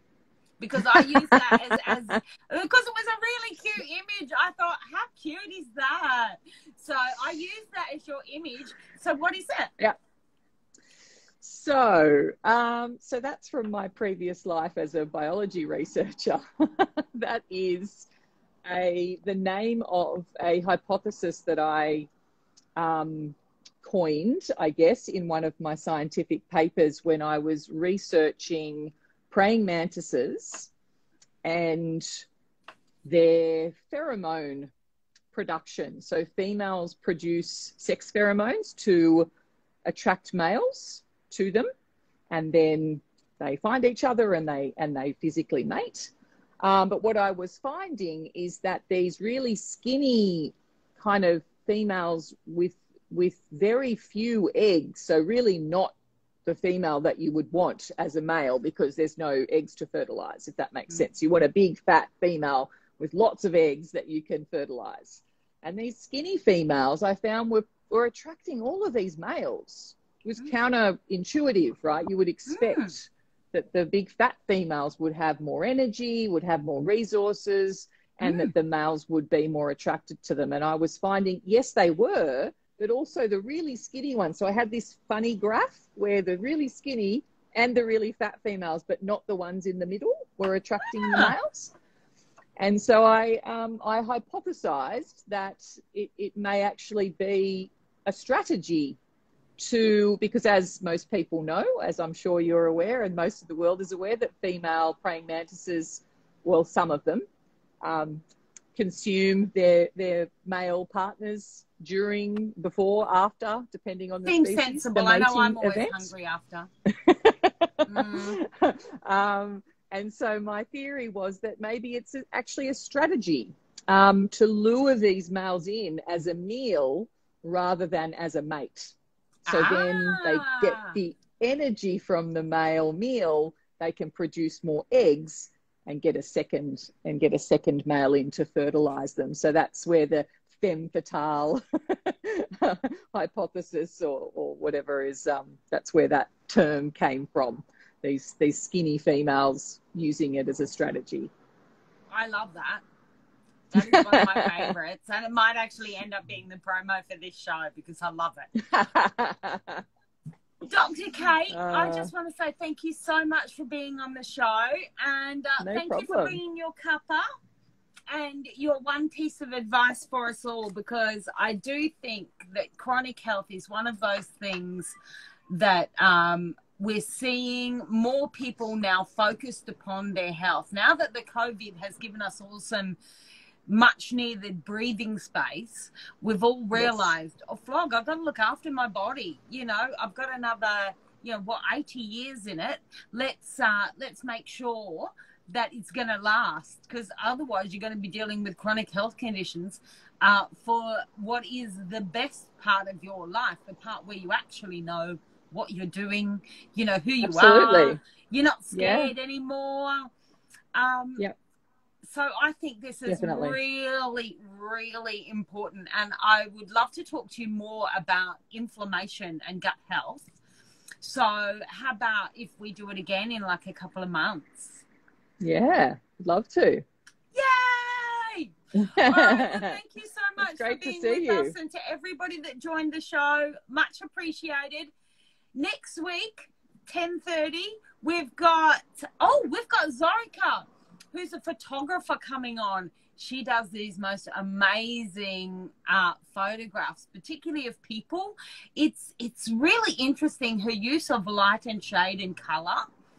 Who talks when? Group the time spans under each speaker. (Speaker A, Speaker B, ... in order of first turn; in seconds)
Speaker A: 0.6-9.7, 72.5-72.9, 78.2-78.5, 91.0-91.3, 114.2-116.7, 117.9-118.4, 129.5-130.9, 152.1-152.8, 153.7-158.5, 160.6-167.2, 168.1-174.9, 175.5-183.0, 183.7-210.1, 210.7-211.2, 212.0-220.4, 221.0-224.8, 227.3-234.9, 235.5-252.9
Speaker B: 0.9-1.9, 11.4-18.1, 18.6-22.1, 22.8-30.7, 31.4-32.2, 33.0-34.7, 35.3-39.3, 39.9-41.7, 42.3-91.7, 92.6-99.0, 99.6-107.2, 107.8-108.2, 108.8-116.1, 116.9-128.9, 129.5-151.3, 153.7-154.7, 158.6-159.8, 161.5-162.1, 165.6-166.4, 186.7-187.1, 207.2-208.0, 208.7-209.1, 213.1-213.6, 225.4-226.8, 228.8-229.8, 230.4-231.6